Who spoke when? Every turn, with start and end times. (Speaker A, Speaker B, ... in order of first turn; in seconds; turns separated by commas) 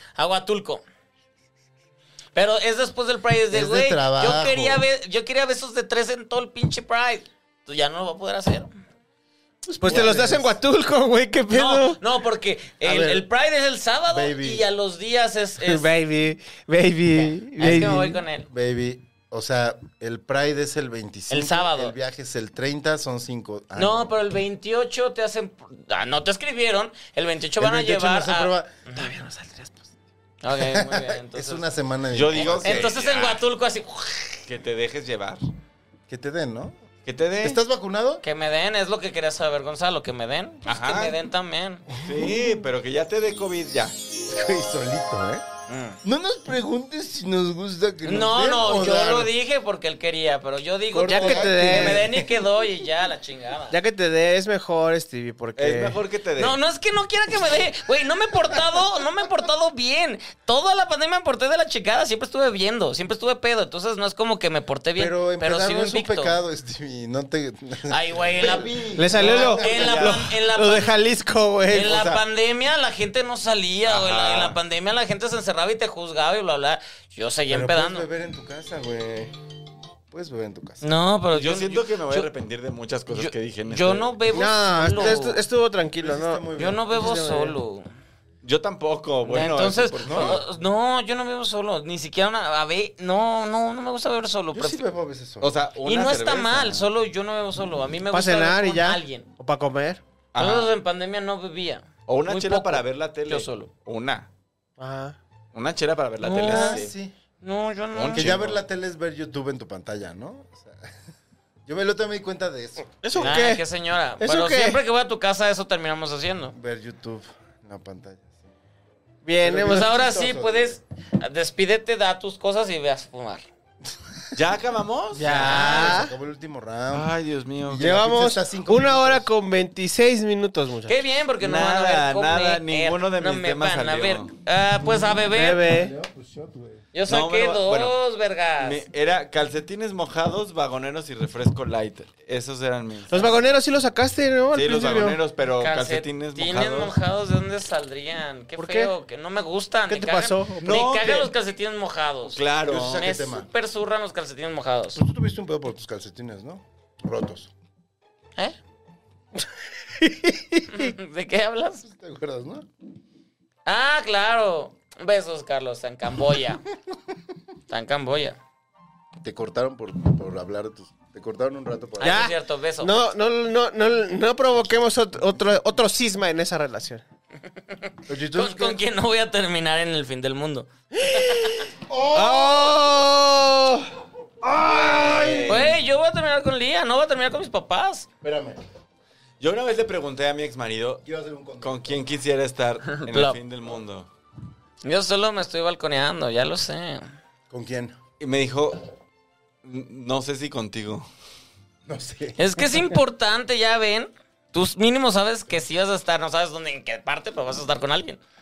Speaker A: 0.2-0.8, Speaker A: 2.4-8.7, Speaker B: 3.5-4.9, Speaker C: 9.7-12.0, Speaker B: 9.8-10.6, Speaker A: 9.9-10.1, Speaker A: 11.5-15.9, Speaker B: 12.8-13.3, Speaker B: 14.1-14.7, Speaker C: 15.6-18.2, Speaker A: 17.1-18.5, Speaker B: 18.5-24.1, Speaker A: 21.3-21.9, Speaker A: 23.8-29.1, Speaker B: 27.6-28.8, Speaker C: 29.0-29.7, Speaker A: 30.4-31.7, Speaker B: 30.5-32.9, Speaker D: 32.1-33.4, Speaker A: 32.4-34.4, Speaker D: 34.5-35.4, Speaker B: 36.1-36.8, Speaker D: 37.1-37.6, Speaker B: 37.4-38.2, Speaker A: 38.2-41.9, Speaker D: 40.7-41.2, Speaker D: 42.0-44.0, Speaker B: 42.1-42.4, Speaker B: 44.3-45.4, Speaker A: 45.7-46.0, Speaker B: 46.0-49.3, Speaker A: 48.0-53.8, Speaker B: 50.9-52.3, Speaker C: 51.1-52.1, Speaker C: 53.7-56.0, Speaker D: 55.6-56.6, Speaker A: 56.4-66.3, Speaker B: 65.0-70.1, Speaker A: 67.9-71.0, Speaker C: 69.0-72.0, Speaker D: 69.1-70.2, Speaker A: 71.7-78.1, Speaker D: 71.8-72.2, Speaker D: 73.9-74.6, Speaker B: 77.5-79.3, Speaker B: 80.1-80.8, Speaker A: 80.8-82.3, Speaker D: 81.3-84.2, Speaker A: 83.1-85.4, Speaker C: 84.3-87.5, Speaker B: 84.9-85.2, Speaker B: 86.0-87.5, Speaker A: 86.6-87.9, Speaker D: 88.4-90.4, Speaker A: 89.2-94.8, Speaker B: 90.0-90.4, Speaker B: 94.5-95.5, Speaker D: 95.4-96.9, Speaker A: 95.8-99.3, Speaker C: 98.1-100.0, Speaker D: 100.3-100.7, Speaker A: 100.4-103.7, Speaker D: 102.1-104.3, Speaker C: 104.8-105.2, Speaker D: 105.5-106.9, Speaker A: 106.2-106.9, Speaker B: 106.4-107.1, Speaker A: 107.4-108.3, Speaker D: 107.9-108.6, Speaker B: 108.1-110.9, Speaker B: 111.7-113.4, Speaker C: 113.0-113.6, Speaker A: 113.2-116.5, Speaker C: 114.2-114.8, Speaker B: 116.5-118.5, Speaker C: 119.2-119.9, Speaker B: 119.4-120.8, Speaker A: 119.6-123.5, Speaker D: 124.3-125.6, Speaker C: 125.2-126.1, Speaker B: 125.2-127.1, Speaker A: 125.4-126.0, Speaker D: 126.9-128.0, Speaker B: 127.7-129.3, Speaker C: 127.8-131.0, Speaker A: 130.9-135.7, Speaker D: 131.4-134.3, Speaker B: 134.8-136.8, Speaker C: 135.3-135.9, Speaker A: 136.9-138.8, Speaker D: 137.1-137.9, Speaker D: 138.6-143.3, Speaker C: 143.1-145.2, Speaker D: 144.5-146.9, Speaker A: 145.6-152.4, Speaker C: 148.6-148.9, Speaker C: 149.9-150.8, Speaker D: 150.6-151.3, Speaker D: 152.3-153.1, Speaker B: 152.7-153.5, Speaker A: 152.9-155.0, Speaker B: 154.9-157.5, Speaker C: 160.0-160.9, Speaker A: 160.7-161.9, Speaker B: 161.8-162.7, Speaker A: 163.7-166.6, Speaker A: 167.7-168.4, Speaker B: 169.2-172.3, Speaker A: 172.0-172.9, Speaker C: 172.0-177.0, Speaker B: 178.1-178.8, Speaker A: 178.3-181.7, Speaker C: 181.0-181.6, Speaker B: 181.9-182.9, Speaker C: 182.1-185.7, Speaker D: 184.6-185.8, Speaker A: 185.5-188.1, Speaker B: 188.2-188.6, Speaker D: 189.4-191.0, Speaker B: 191.0-192.1, Speaker D: 191.6-194.1, Speaker A: 193.0-193.4, Speaker A: 194.8-197.1, Speaker B: 197.5-198.0, Speaker D: 198.2-198.8, Speaker D: 199.6-201.1, Speaker B: 201.9-202.8, Speaker A: 202.4-208.2